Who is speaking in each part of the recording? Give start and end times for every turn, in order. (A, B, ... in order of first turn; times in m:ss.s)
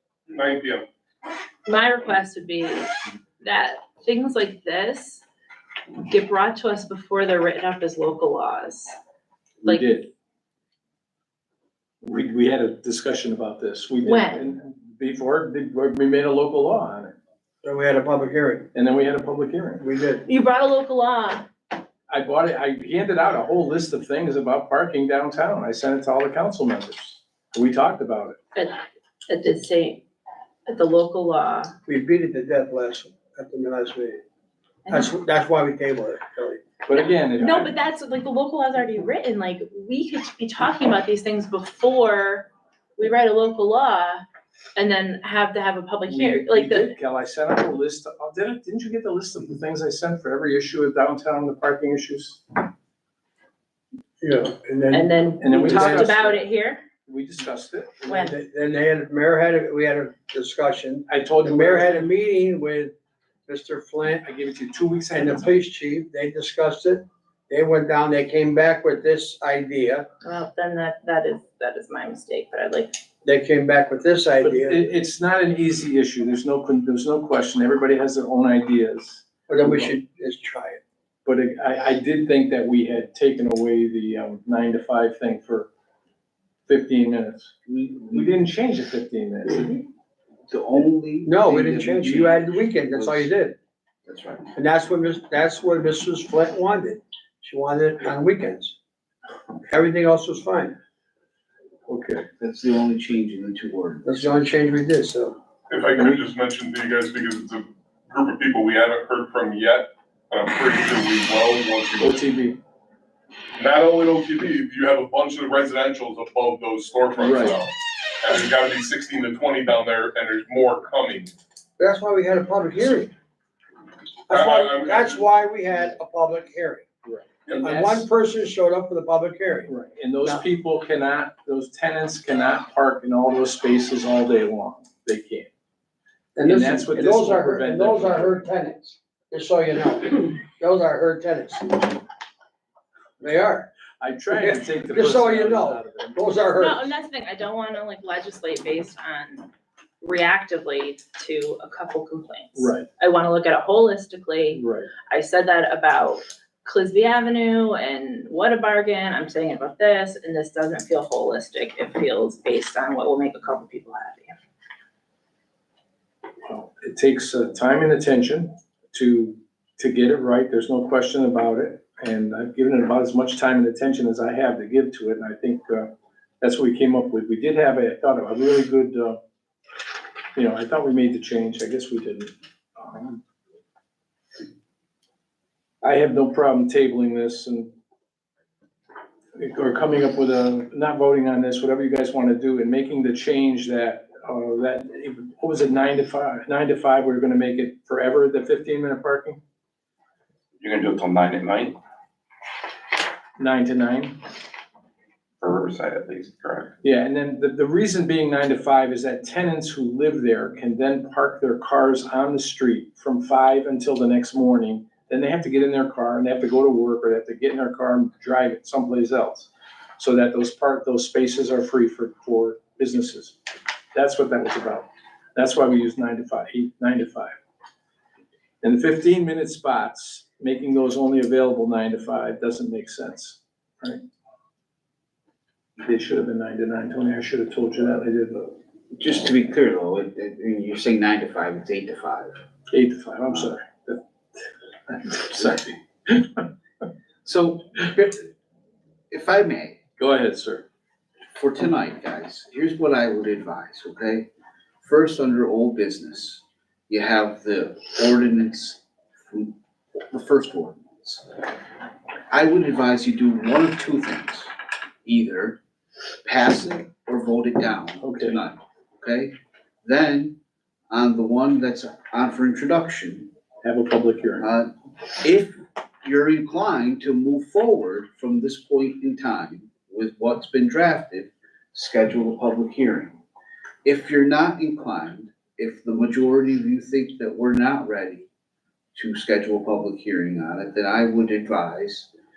0:00.3-0:00.9 A
0:01.7-0:05.2 B
0:06.0-0:08.9 B
0:09.6-0:09.9 B
0:09.6-0:10.1 C
0:12.0-0:17.2 C
0:14.0-0:14.4 B
0:17.6-0:18.7 D
0:18.7-0:19.8 C
0:19.8-0:20.2 D
0:20.3-0:21.5 B
0:22.1-0:28.4 C
0:28.6-0:30.0 B
0:30.7-0:31.7 B
0:31.9-0:34.2 D
0:34.9-0:36.6 D
0:36.9-0:37.8 C
0:37.0-0:44.2 B
0:44.8-0:46.9 B
0:46.1-0:52.6 C
0:54.2-0:56.2 D
0:54.9-0:56.8 B
0:55.4-0:56.4 C
0:57.1-0:58.3 C
0:58.1-0:58.3 B
0:58.1-1:02.9 D
1:01.1-1:02.1 C
1:03.5-1:04.2 D
1:04.2-1:05.5 C
1:05.1-1:10.1 D
1:10.2-1:12.9 B
1:13.2-1:14.8 D
1:14.4-1:19.9 C
1:19.5-1:20.8 D
1:21.2-1:25.7 C
1:26.7-1:27.5 C
1:27.7-1:28.3 E
1:28.0-1:29.8 C
1:30.5-1:33.3 E
1:31.2-1:33.6 D
1:34.1-1:34.5 E
1:34.6-1:38.8 D
1:39.7-1:40.8 D
1:41.9-1:42.3 C
1:42.4-1:44.2 E
1:44.0-1:45.4 D
1:45.7-1:52.2 A
1:52.0-1:52.6 C
1:53.6-2:01.3 A
1:57.2-1:57.6 C
2:01.8-2:03.1 D
2:04.3-2:06.9 D
2:04.3-2:05.3 A
2:07.1-2:08.1 C
2:07.6-2:09.7 D
2:09.7-2:15.5 C
2:16.4-2:22.0 D
2:16.4-2:18.4 C
2:23.2-2:23.7 D
2:24.0-2:26.2 C
2:24.3-2:26.9 D
2:26.6-2:29.5 B
2:30.0-2:44.4 B
2:32.6-2:32.9 C
2:34.5-2:34.9 C
2:46.5-2:59.2 C
3:00.4-3:03.2 C
3:05.8-3:07.7 C
3:09.4-3:19.4 C
3:20.6-3:21.8 F
3:23.4-3:24.2 C
3:25.4-3:26.8 F
3:26.8-3:43.4 C
3:43.9-3:47.3 C
3:48.6-3:54.0 C
3:55.8-3:58.6 C
3:58.9-4:02.4 E
4:02.7-4:04.0 C
4:04.9-4:06.4 C
4:07.2-4:08.3 E
4:09.1-4:09.8 E
4:10.0-4:10.7 C
4:11.3-4:14.3 E
4:14.8-4:19.6 E
4:20.1-4:21.3 E
4:22.3-4:24.5 E
4:25.0-4:25.6 E
4:26.2-4:30.4 E
4:28.0-4:28.4 C
4:30.9-4:33.3 E
4:33.6-4:34.5 C
4:34.4-4:43.2 E
4:43.8-4:48.3 E
4:49.0-4:52.1 E